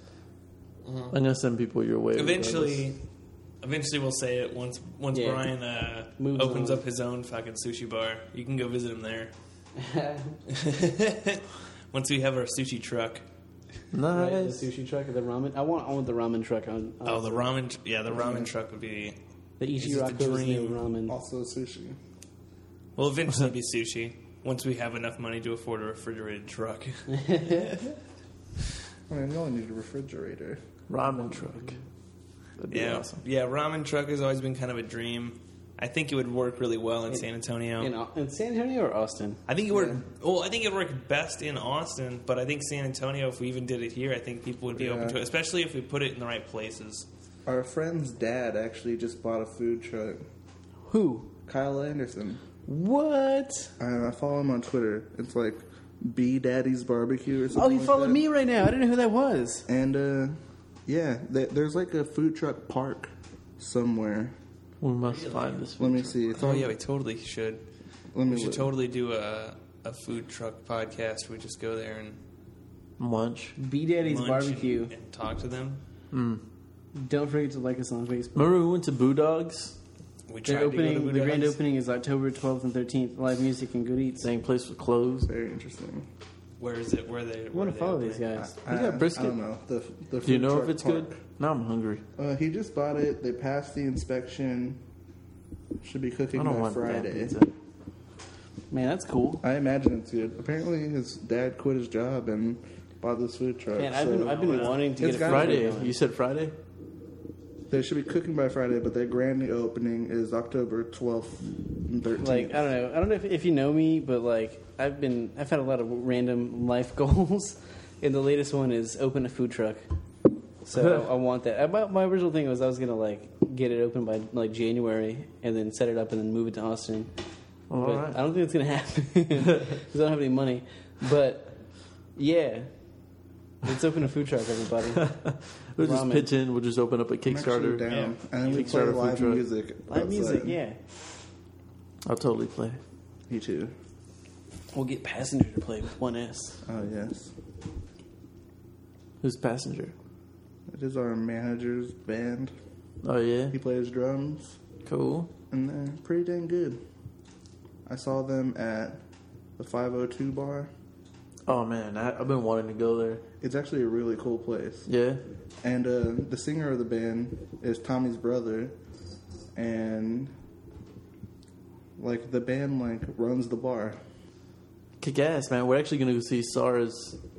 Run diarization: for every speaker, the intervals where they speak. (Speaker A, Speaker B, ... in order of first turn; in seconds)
Speaker A: 0.8-1.2, 2.1-3.0, 3.6-9.3, 10.5-13.2, 17.1-19.2, 19.7-20.8, 23.0-27.9, 32.7-37.9, 39.5-47.1, 65.0-65.7, 66.4-67.6, 68.3-72.2, 74.0-75.8, 80.3-81.6, 86.6-88.3, 104.4-104.8, 137.9-138.2
Speaker B: 1.1-2.9, 13.9-14.7, 30.9-31.8, 32.6-33.2, 64.8-66.2, 73.0-73.6, 76.1-76.4, 78.3-79.8, 84.2-85.3, 88.7-89.4, 90.2-92.0, 96.3-97.5, 105.1-106.6, 127.7-128.2, 134.9-137.9, 138.4-139.4, 142.1-142.8, 149.2-149.9, 153.0-153.6, 154.9-155.3, 161.5-163.2, 164.9-165.2, 175.0-177.2
Speaker C: 5.1-5.5, 6.2-6.8, 9.8-10.4, 14.1-17.5, 19.6-21.1, 27.1-27.7, 37.1-39.4, 50.9-51.3, 52.7-53.7, 57.5-59.7, 73.6-74.9, 77.0-78.5, 80.5-84.3, 87.5-88.5, 98.7-99.4, 103.8-106.0, 112.2-119.8, 120.6-127.1, 127.8-132.7, 133.6-135.1, 135.8-136.3, 139.9-140.8, 144.7-146.6
Speaker D: 18.1-18.5, 21.1-22.0, 29.1-30.6, 39.7-40.0, 44.8-45.2, 47.5-50.2, 51.5-52.4, 53.8-58.2, 59.7-64.3, 65.8-66.7, 68.1-68.7, 85.2-86.1, 88.4-91.2, 92.2-94.8, 95.8-97.4, 99.4-105.7, 107.7-112.7, 137.2-140.6, 143.3-143.7, 146.7-147.3, 150.7-152.5, 153.5-154.6, 155.5-156.8, 157.9-159.0, 159.6-160.7, 163.4-164.9, 165.6-168.8, 169.6-170.3, 172.0-174.0